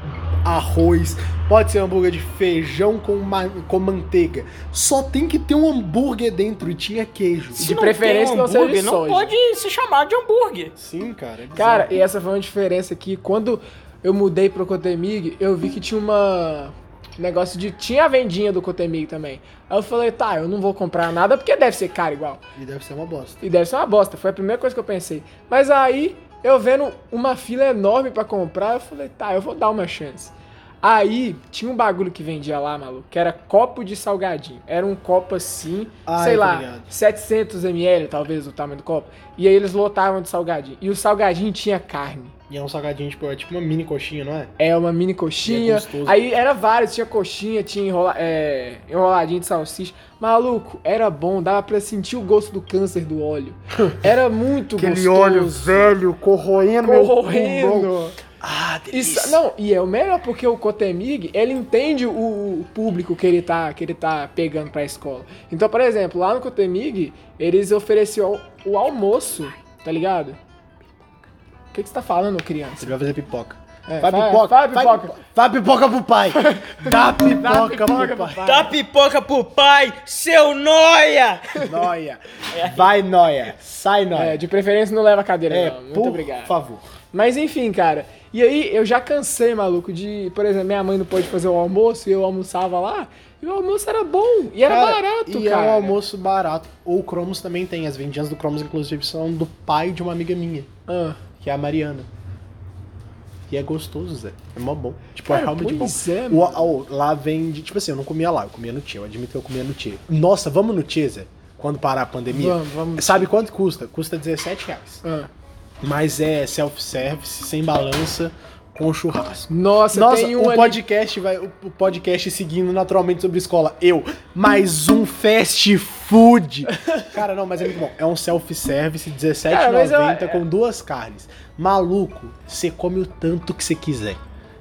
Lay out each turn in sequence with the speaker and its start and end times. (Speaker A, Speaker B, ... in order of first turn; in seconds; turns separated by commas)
Speaker A: 0.4-7.7, Speaker B: 7.5-10.7, Speaker C: 7.6-9.3, Speaker A: 10.7-12.0, Speaker C: 11.5-22.4, Speaker A: 22.6-23.4, Speaker C: 23.4-42.3, Speaker A: 36.0-36.9, Speaker A: 42.5-44.5, Speaker C: 44.6-55.9, Speaker A: 45.4-46.2, Speaker A: 54.8-59.4, Speaker C: 56.8-58.1, Speaker C: 58.9-70.4, Speaker C: 71.7-72.9, Speaker A: 72.8-78.4, Speaker C: 73.9-75.1, Speaker C: 76.3-78.7, Speaker B: 78.4-81.6, Speaker A: 81.6-84.4, Speaker B: 82.5-82.9, Speaker C: 84.1-86.5, Speaker A: 85.5-86.9, Speaker C: 87.1-96.0, Speaker A: 94.6-100.7, Speaker C: 100.9-101.2, Speaker A: 101.4-102.1, Speaker A: 103.5-115.0, Speaker C: 105.2-106.7, Speaker C: 112.3-113.3, Speaker C: 115.0-115.3, Speaker A: 115.8-134.2, Speaker C: 119.5-120.8, Speaker C: 129.5-130.4